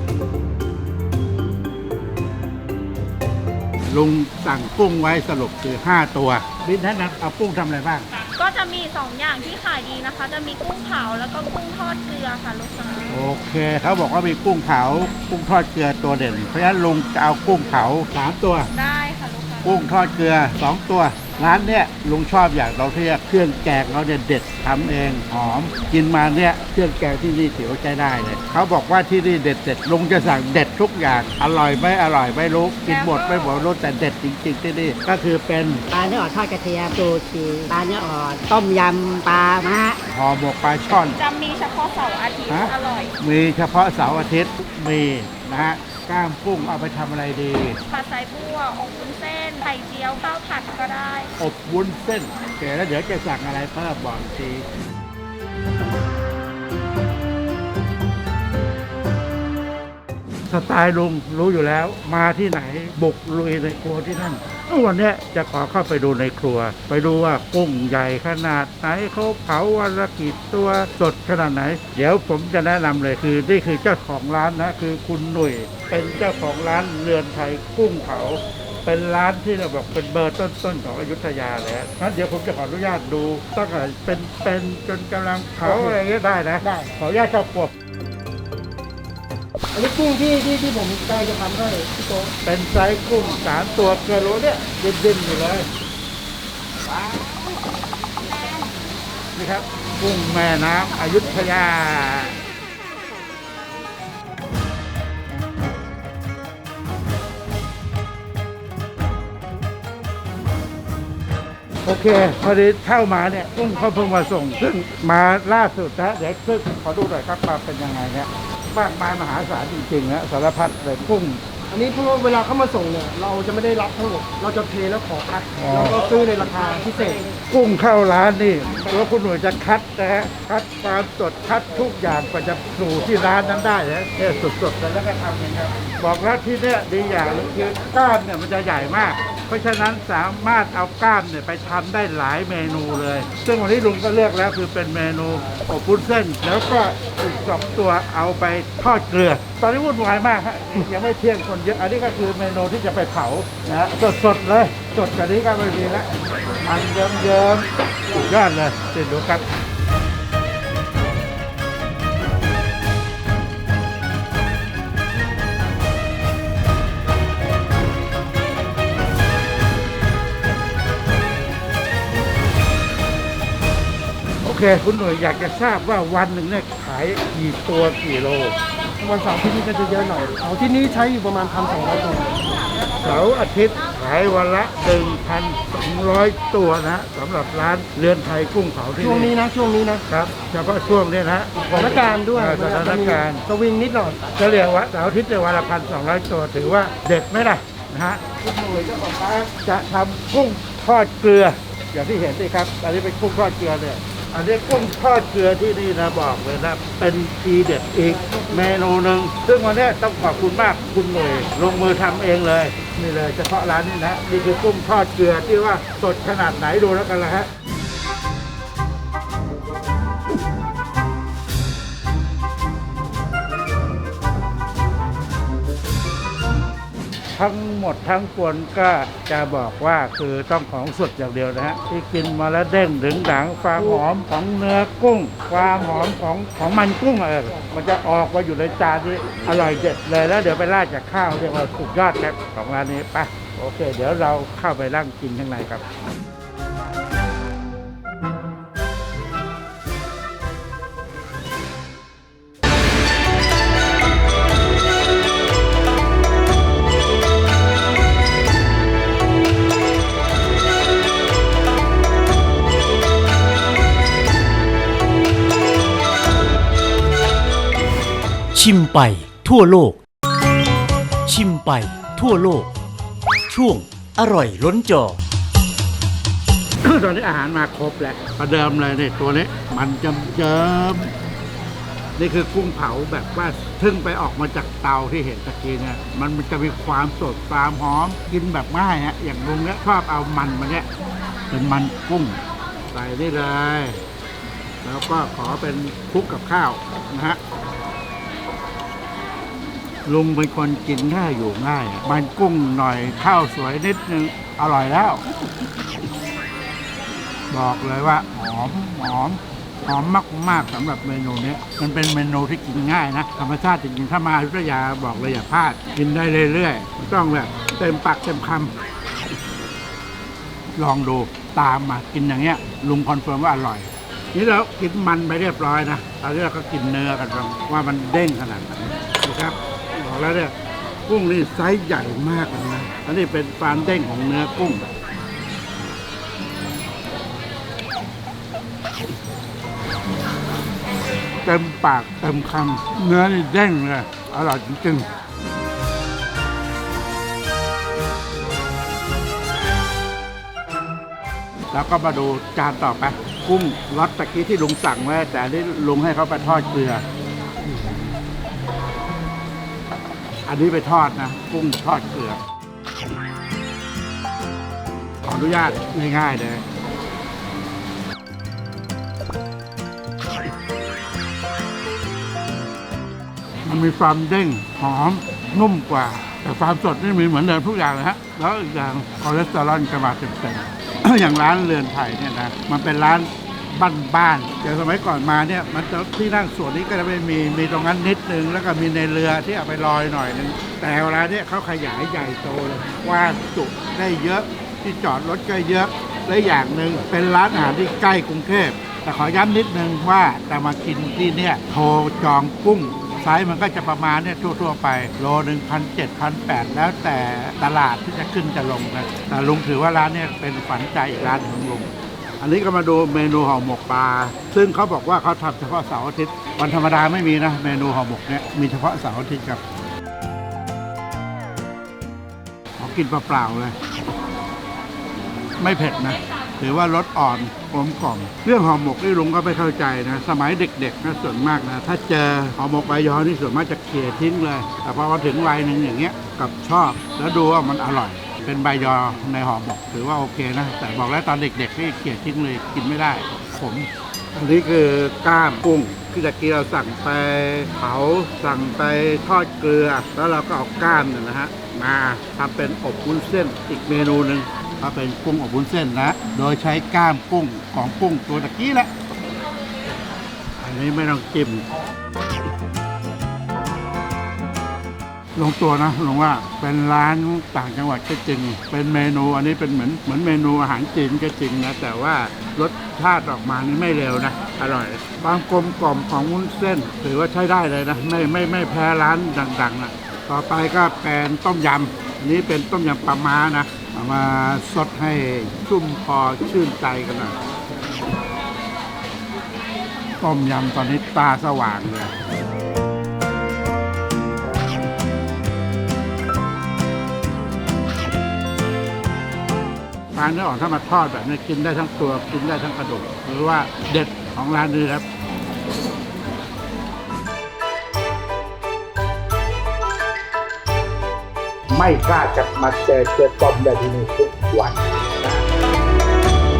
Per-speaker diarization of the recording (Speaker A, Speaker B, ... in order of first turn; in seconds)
Speaker A: 3.9-8.1, 13.1-18.7, 19.6-35.8, 40.1-41.2, 42.5-47.8, 51.4-54.6, 60.5-87.7, 92.4-95.7, 99.3-102.3, 111.8-121.4, 125.6-126.0, 127.4-159.4, 174.4-178.6, 183.0-189.3, 190.1-193.4, 194.3-217.5, 227.3-245.8, 276.8-281.1, 282.1-290.9, 291.5-294.0, 294.8-297.4, 300.0-305.2, 307.5-318.8, 320.7-330.5, 331.1-334.9, 341.4-345.1, 351.7-357.0, 360.4-362.4, 365.2-366.6, 373.6-419.6, 422.8-423.8, 425.6-458.9, 460.6-461.7, 465.3-487.4, 490.2-492.1, 500.1-505.1, 513.5-514.0
Speaker B: 8.2-13.2, 18.7-19.8, 32.9-33.6, 41.1-43.1, 47.9-51.3
Speaker C: 35.9-40.0
Speaker D: 85.6-86.0, 86.6-86.9, 89.7-92.3, 121.7-127.2, 179.0-182.3, 189.0-190.0, 191.8-194.3
Speaker E: 268.5-270.0, 271.2-272.7, 273.5-275.2
Speaker F: 511.8-514.7